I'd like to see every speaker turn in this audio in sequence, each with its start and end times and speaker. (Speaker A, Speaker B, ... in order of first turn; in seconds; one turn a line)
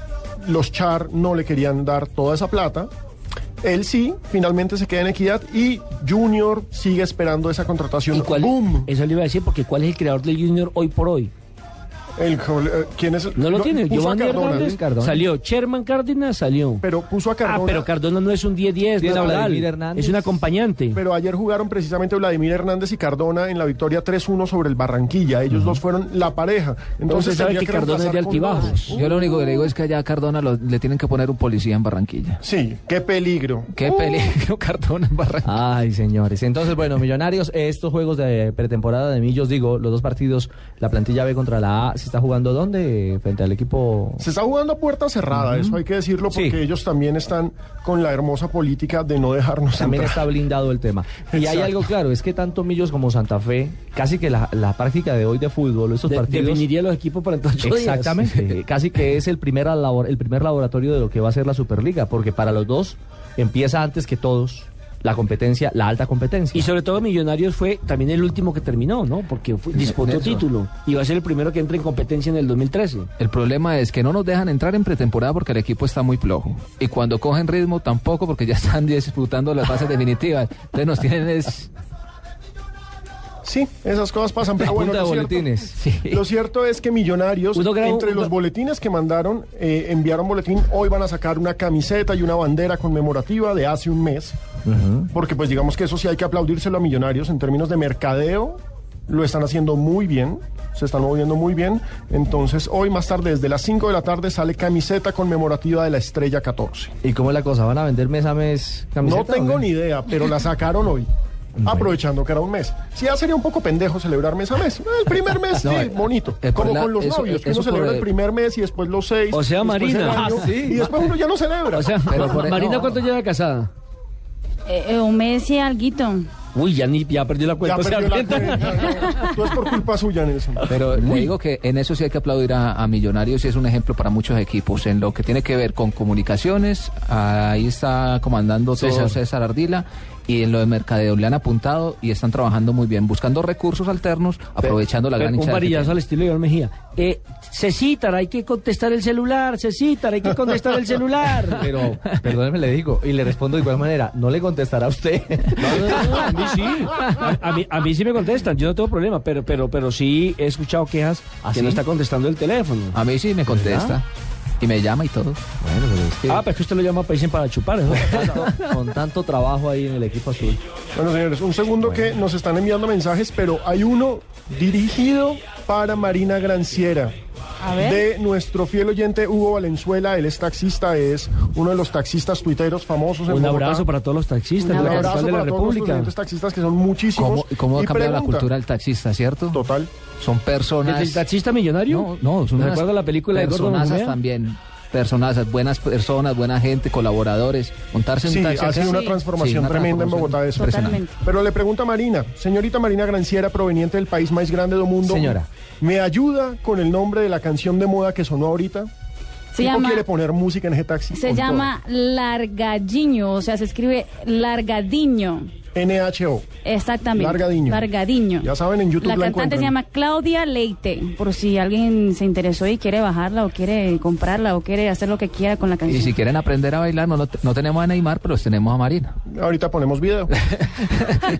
Speaker A: 0.4-2.9
Speaker A: 3.6-8.9
Speaker B: 8.1-11.3
Speaker A: 12.2-14.7
Speaker B: 13.3-16.8
Speaker C: 14.2-15.2
Speaker A: 16.8-17.9
Speaker B: 17.4-21.0
Speaker C: 19.0-20.4
Speaker A: 20.9-28.9
Speaker B: 27.1-29.0
Speaker D: 28.9-32.4
Speaker A: 32.4-33.7
Speaker D: 33.7-35.5
Speaker C: 35.4-44.2
Speaker A: 44.2-50.2
Speaker C: 45.3-45.8
Speaker C: 46.3-46.6
Speaker C: 49.8-56.6
Speaker A: 51.3-51.7
Speaker B: 56.0-58.3
Speaker C: 57.6-66.7
Speaker B: 66.5-73.1
Speaker D: 69.9-70.4
Speaker D: 73.2-81.7
Speaker A: 83.4-85.6
Speaker C: 84.6-85.8
Speaker D: 85.8-86.2
Speaker A: 86.1-94.4
Speaker B: 87.5-88.3
Speaker C: 94.7-95.1
Speaker A: 95.1-106.9
Speaker C: 107.0-109.7
Speaker A: 109.0-111.1
Speaker C: 111.6-111.9
Speaker A: 111.6-122.4
Speaker D: 115.6-118.1
Speaker B: 119.3-120.3
Speaker C: 120.1-120.8
Speaker B: 121.7-123.7
Speaker D: 122.0-123.0
Speaker E: 124.7-126.3
Speaker B: 126.5-129.4
Speaker A: 127.6-130.6
Speaker D: 130.7-146.0
Speaker B: 138.8-139.1
Speaker C: 138.8-139.1
Speaker B: 144.6-151.7
Speaker C: 151.5-156.3
Speaker B: 155.6-163.0
Speaker C: 161.4-161.8
Speaker D: 162.9-164.1
Speaker C: 163.4-164.0
Speaker D: 164.6-165.4
Speaker C: 165.6-166.4
Speaker B: 166.2-168.5
Speaker C: 168.0-170.6
Speaker A: 170.9-177.1
Speaker E: 177.6-178.1
Speaker A: 177.8-183.9
Speaker B: 183.2-186.1
Speaker A: 184.6-188.5
Speaker D: 187.1-189.6
Speaker A: 189.5-189.9
Speaker D: 190.1-191.2
Speaker B: 190.8-194.2
Speaker D: 191.9-201.0
Speaker A: 198.2-208.9
Speaker E: 198.8-199.2
Speaker E: 200.6-201.2
Speaker C: 205.0-205.5
Speaker E: 209.5-210.1
Speaker A: 209.6-211.7
Speaker E: 211.1-215.5
Speaker A: 215.7-216.4
Speaker E: 216.6-218.5
Speaker A: 217.2-217.8
Speaker A: 218.4-219.7
Speaker E: 219.0-226.2
Speaker D: 225.8-229.1
Speaker A: 229.3-230.3